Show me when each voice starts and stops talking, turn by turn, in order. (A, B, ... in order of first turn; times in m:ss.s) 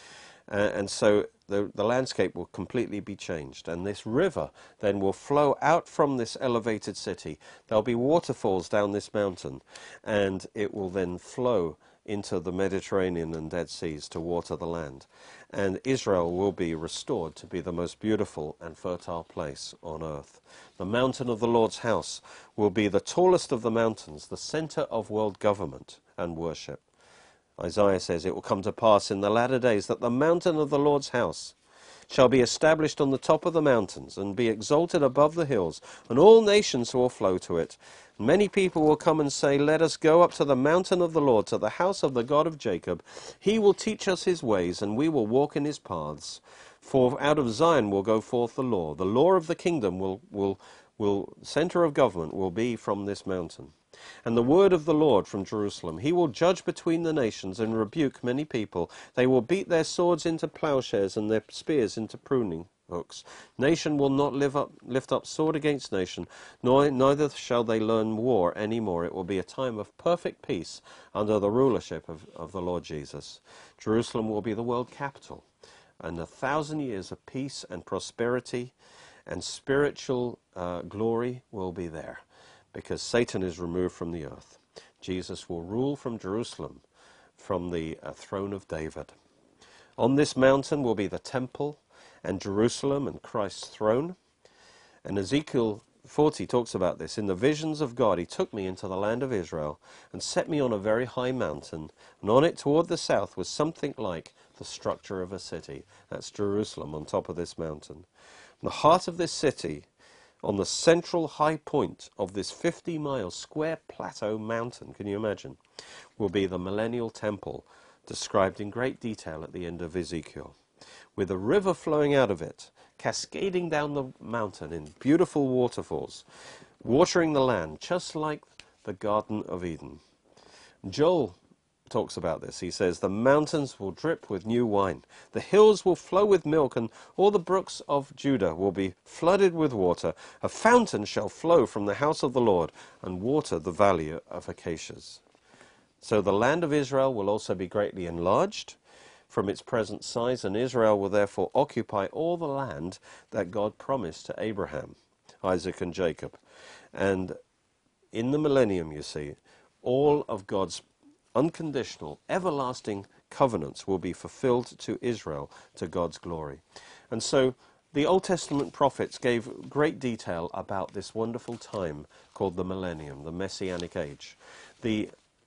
0:00.5-0:26.8 A
0:27.6-0:31.6 A
0:32.1-0:53.7 A
0:54.3-1:15.5 A
1:16.0-1:18.8 A
1:19.3-1:22.2 A
1:22.7-1:26.8 A
1:27.4-1:29.1 A
1:30.0-1:34.2 A
1:35.0-1:48.1 A
1:48.6-1:49.9 A
1:50.4-1:55.6 A
1:56.2-2:00.6 A
2:01.2-2:06.2 A
2:06.8-2:10.0 A
2:10.8-2:11.4 A
2:11.9-2:25.2 A
2:26.0-2:28.8 A
2:29.3-2:36.4 A
2:36.9-2:37.4 A
2:38.1-2:55.1 A